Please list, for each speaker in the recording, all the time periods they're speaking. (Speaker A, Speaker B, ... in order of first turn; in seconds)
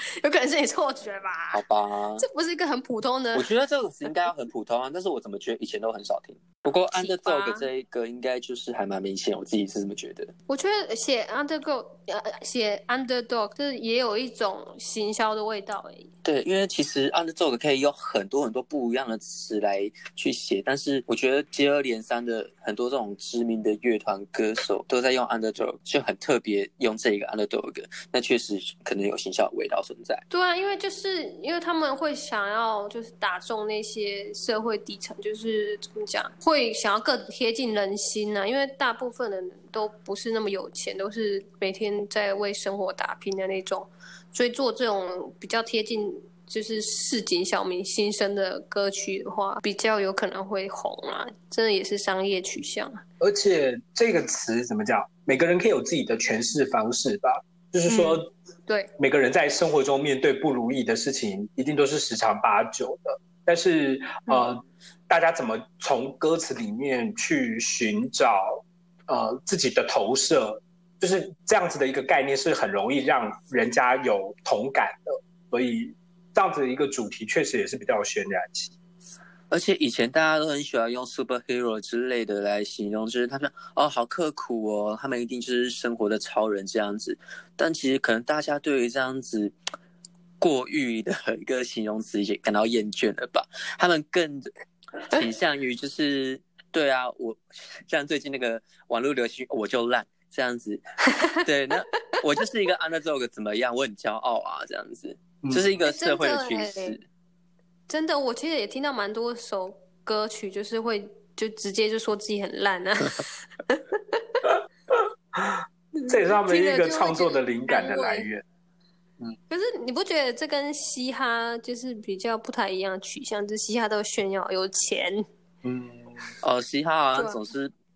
Speaker A: 0.2-1.6, 2.2-3.5, 6.9-7.7, 10.5-16.1, 30.3-53.0, 57.9-58.9, 105.8-107.0, 107.9-114.2, 115.9-118.3, 119.5-125.2, 127.1-127.4
Speaker B: 1.5-2.2, 3.3-10.3, 16.2-30.2, 79.5-89.5, 90.4-94.5, 95.1-100.8, 101.4-107.0, 126.4-127.7
Speaker C: 53.2-58.3, 59.0-78.7, 105.4-105.8, 115.4-118.4, 125.6-126.3